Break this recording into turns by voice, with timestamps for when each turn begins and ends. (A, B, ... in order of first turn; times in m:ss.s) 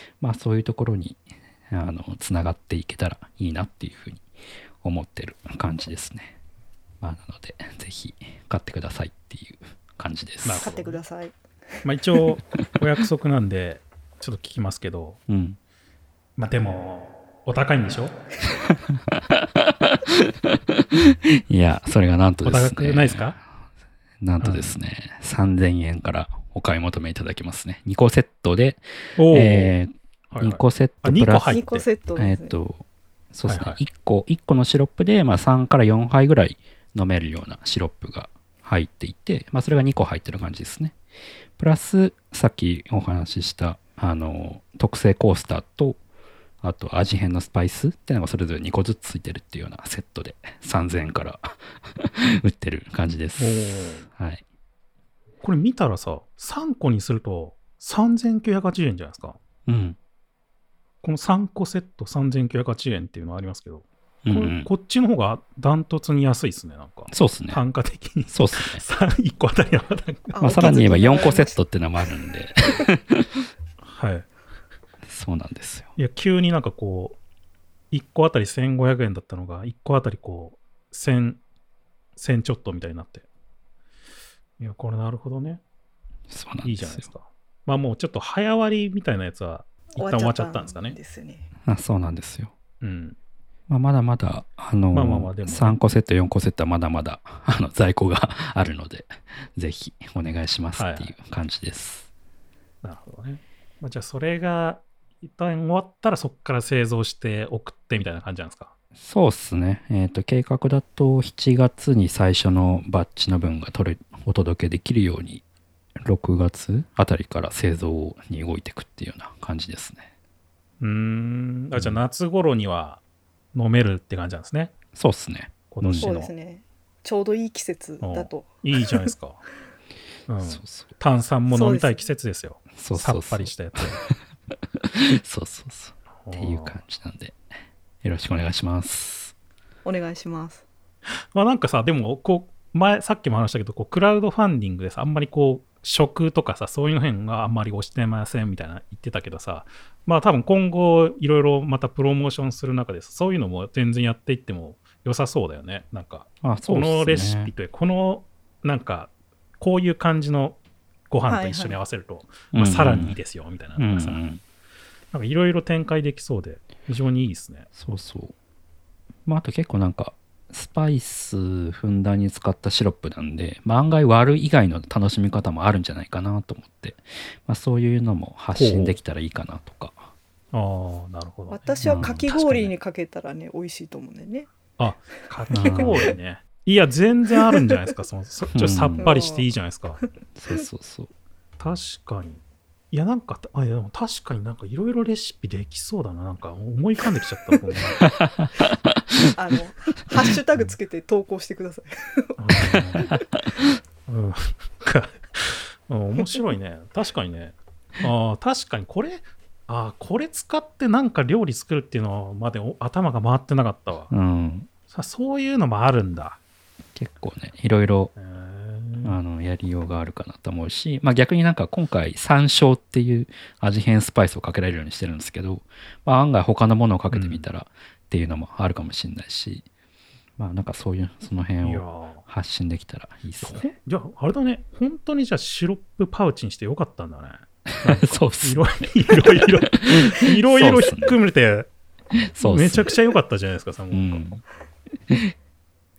0:00.2-0:04.2 A
0:04.8-0:06.4 A
0:07.0-0:10.8 A
0:10.4-0:11.0 B
0:10.6-0:11.8 C
0:11.8-0:15.2 B
0:15.3-0:15.6 A
0:16.4-0:18.1 B
0:18.7-0:23.3 A
0:22.4-0:23.4 B
0:24.2-0:31.6 A
0:24.4-0:24.7 B
0:29.2-0:29.7 B
0:30.3-0:31.8 B
0:31.5-0:32.5 C
0:32.2-0:41.0 A
0:33.5-0:33.8 B
0:41.6-0:46.0 A
0:46.6-0:54.4 A
0:53.4-0:54.0 B
0:55.4-0:59.4 B
0:59.6-1:00.0 A
1:01.0-1:10.4 B
1:04.2-1:04.7 A
1:07.1-1:07.6 A
1:08.3-1:08.8 A
1:10.3-1:11.6 C
1:10.4-1:13.5 A
1:13.8-1:14.3 B
1:15.0-1:15.9 A
1:16.0-1:17.2 B
1:17.9-1:21.4 B
1:22.2-1:23.2 B
1:24.6-1:25.6 B
1:26.3-1:27.1 A
1:26.6-1:31.0 B
1:30.0-1:31.5 C
1:31.6-1:32.5 A
1:32.8-1:33.2 B
1:33.7-1:42.1 A
1:34.9-1:35.8 B
1:40.8-1:41.1 B
1:42.8-1:48.7 B
1:49.0-1:55.4 A
1:56.0-2:00.1 A
2:00.8-2:03.0 B
2:03.5-2:04.7 B
2:04.9-2:06.3 A
2:05.7-2:06.1 B
2:06.0-2:09.1 C
2:08.0-2:09.4 B
2:10.3-2:14.0 B
2:10.4-2:10.9 A
2:11.5-2:12.0 C
2:12.8-2:14.1 A
2:14.8-2:17.4 A
2:16.2-2:16.8 B
2:18.0-2:19.3 A
2:19.8-2:20.6 C
2:21.3-2:40.6 B
2:36.4-2:37.5 A
2:41.1-2:44.2 B
2:41.3-2:41.8 C
2:42.5-2:43.2 A
2:43.8-2:44.4 A
2:45.1-2:47.7 B
2:47.7-2:48.3 A
2:49.2-3:00.1 A
2:58.5-2:59.0 B
3:00.5-3:02.7 B
3:01.5-3:04.5 C
3:01.8-3:02.2 A
3:04.8-3:10.0 B
3:05.5-3:06.1 A
3:05.6-3:05.9 C
3:08.5-3:09.1 A
3:09.0-3:09.5 C
3:10.0-3:10.6 C
3:10.3-3:11.1 A
3:11.6-3:18.2 B
3:18.0-3:19.3 A
3:19.4-3:23.1 C
3:22.4-3:23.2 B
3:22.7-3:23.6 A
3:24.1-3:34.1 B
3:34.1-3:34.7 A
3:34.9-3:36.4 B
3:37.0-3:38.1 A
3:38.2-3:39.2 B
3:39.0-3:49.6 A
3:47.1-3:47.4 B
3:50.4-3:53.6 A
3:51.6-3:52.2 B
3:53.4-4:01.7 B
3:57.8-4:01.2 A
4:02.2-4:02.9 A
4:02.4-4:04.3 B
4:03.9-4:04.4 A